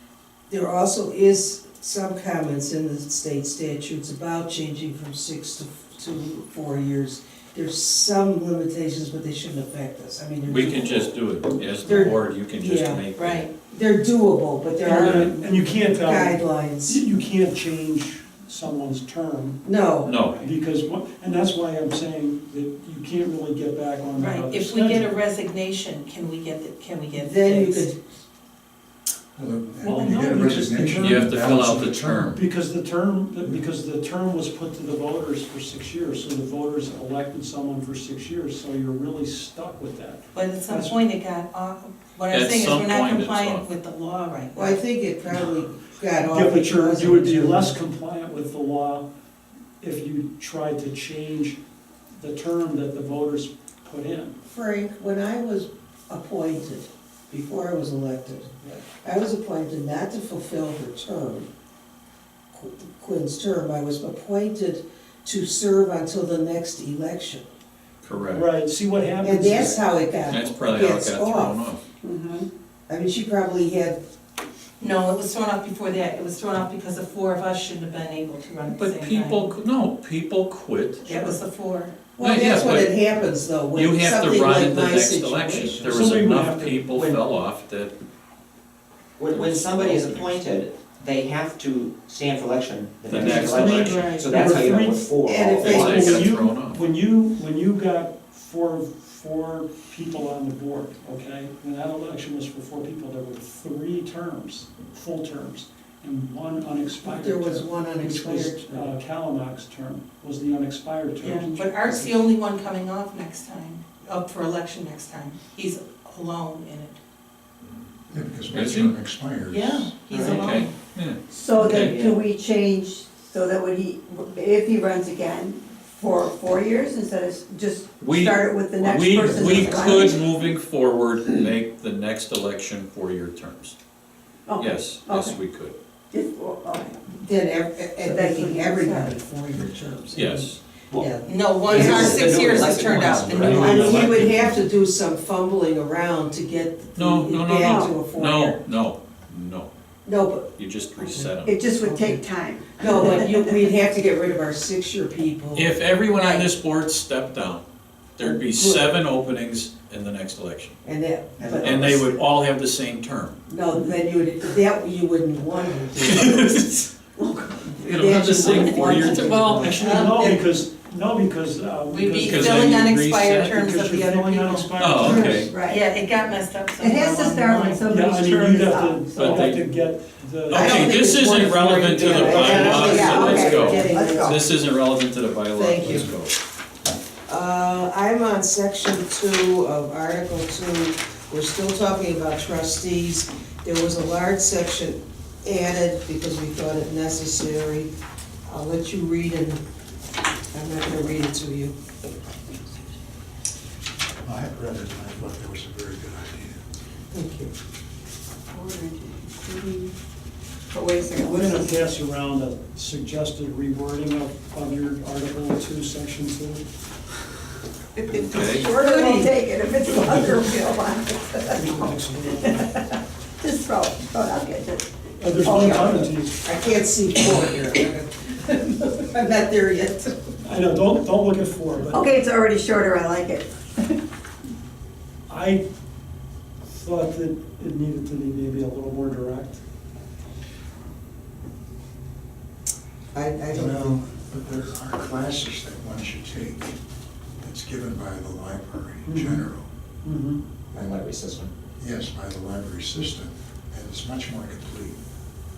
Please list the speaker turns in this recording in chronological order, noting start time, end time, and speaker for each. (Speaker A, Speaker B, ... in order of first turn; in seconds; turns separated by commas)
Speaker A: 0.5-11.1, Speaker B: 10.4-13.5, Speaker C: 11.6-12.1, Speaker A: 11.8-13.0, Speaker D: 13.2-13.5, Speaker A: 13.7-17.0, Speaker C: 14.8-19.6, Speaker A: 19.6-20.2, Speaker B: 20.0-20.4, Speaker C: 20.2-25.1, Speaker D: 24.2-27.9, Speaker A: 27.1-27.9, Speaker E: 29.4-32.4, Speaker C: 29.8-31.2, Speaker B: 30.9-32.4, Speaker C: 32.3-41.0, Speaker D: 40.3-44.8, Speaker B: 42.3-43.7, Speaker A: 44.5-47.7, Speaker C: 46.2-49.1, Speaker C: 49.8-51.6, Speaker C: 52.2-54.4, Speaker A: 54.5-61.5, Speaker A: 62.5-67.4, Speaker B: 68.0-68.5, Speaker C: 68.3-69.8, Speaker A: 69.2-71.6, Speaker B: 70.3-71.8, Speaker F: 72.0-72.5, Speaker A: 72.9-74.0, Speaker D: 74.8-79.5, Speaker B: 78.7-81.3, Speaker D: 81.0-82.0, Speaker A: 82.2-86.1, Speaker B: 82.2-83.0, Speaker B: 83.7-87.9, Speaker C: 85.8-87.2, Speaker G: 89.2-96.3, Speaker B: 89.3-90.3, Speaker B: 93.0-94.2, Speaker C: 93.1-112.1, Speaker D: 93.3-94.4, Speaker A: 95.3-96.3, Speaker B: 95.5-96.8, Speaker A: 107.0-108.9, Speaker D: 111.2-117.0, Speaker E: 118.1-119.9, Speaker B: 118.2-119.0, Speaker D: 119.5-120.7, Speaker G: 120.1-120.4, Speaker B: 120.3-122.0, Speaker F: 121.3-130.4, Speaker G: 121.6-122.2, Speaker B: 128.0-133.7, Speaker F: 134.5-135.4, Speaker B: 134.6-135.7, Speaker F: 136.1-137.1, Speaker A: 137.1-142.2, Speaker F: 138.0-139.2, Speaker B: 140.1-140.6, Speaker G: 140.9-144.2, Speaker D: 141.2-144.0, Speaker C: 143.4-144.4, Speaker A: 143.5-148.6, Speaker B: 146.9-149.7, Speaker F: 147.5-148.0, Speaker A: 150.1-150.5, Speaker B: 150.6-151.5, Speaker F: 151.0-153.6, Speaker A: 151.2-152.2, Speaker A: 152.8-156.5, Speaker B: 155.5-157.6, Speaker B: 158.2-160.8, Speaker A: 158.2-158.9, Speaker A: 160.8-162.2, Speaker G: 161.4-161.9, Speaker B: 161.6-163.4, Speaker A: 163.5-169.9, Speaker B: 166.0-166.8, Speaker B: 167.8-170.1, Speaker D: 168.3-169.0, Speaker C: 168.8-175.5, Speaker D: 169.7-170.4, Speaker D: 171.9-174.8, Speaker B: 172.2-173.4, Speaker B: 174.8-175.5, Speaker F: 175.0-175.9, Speaker D: 175.6-177.8, Speaker F: 176.8-179.4, Speaker C: 177.8-181.8, Speaker B: 179.1-179.6, Speaker B: 180.5-186.3, Speaker A: 180.5-184.4, Speaker F: 182.0-184.4, Speaker C: 183.3-183.6, Speaker A: 185.5-186.1, Speaker A: 187.3-197.9, Speaker A: 198.5-199.6, Speaker A: 200.5-201.8, Speaker E: 204.2-206.6, Speaker A: 207.1-207.5, Speaker F: 208.5-209.9, Speaker F: 210.7-211.9, Speaker C: 211.2-216.7, Speaker F: 217.9-226.1, Speaker B: 218.2-218.7, Speaker C: 221.4-222.7, Speaker C: 225.2-226.4, Speaker A: 225.7-230.3, Speaker C: 230.4-232.0, Speaker F: 231.9-234.0, Speaker C: 235.3-235.6, Speaker C: 236.7-239.6, Speaker A: 243.1-244.0, Speaker E: 243.5-246.8, Speaker E: 247.4-249.6, Speaker C: 249.1-249.5, Speaker C: 250.0-250.4, Speaker G: 250.7-251.5, Speaker E: 251.8-255.0